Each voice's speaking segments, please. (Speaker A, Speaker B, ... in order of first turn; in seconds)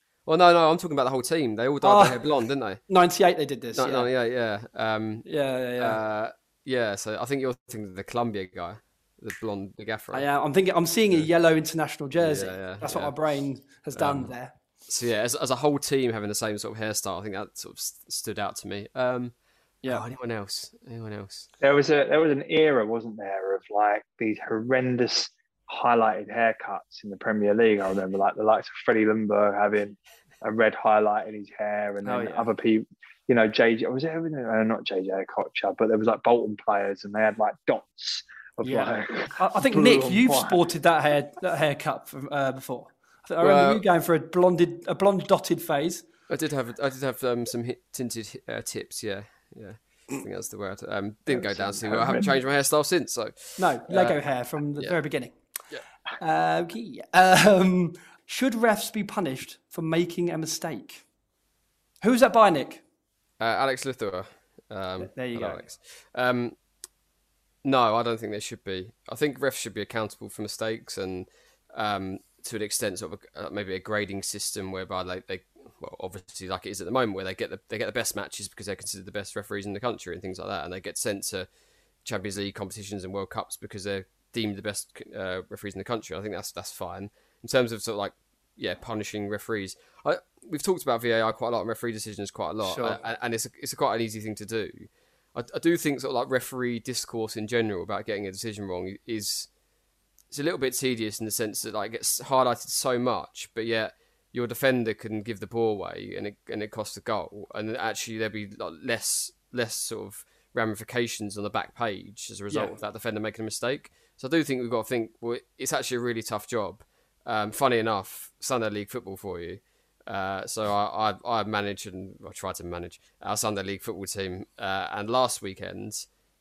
Speaker A: 0.3-2.8, 3.7-10.3, 12.2-13.2, 13.9-14.3, 14.9-21.5, 43.4-43.9, 46.3-54.2, 63.4-66.6, 67.6-81.5, 82.0-99.5, 100.3-126.1
Speaker B: 1.8-2.2, 2.8-4.1, 5.2-6.0, 10.1-14.6, 32.0-32.5, 38.6-46.0, 53.6-55.4, 56.2-61.0, 62.0-62.8, 65.0-65.7, 92.6-93.0
Speaker C: 21.6-40.6, 51.3-52.3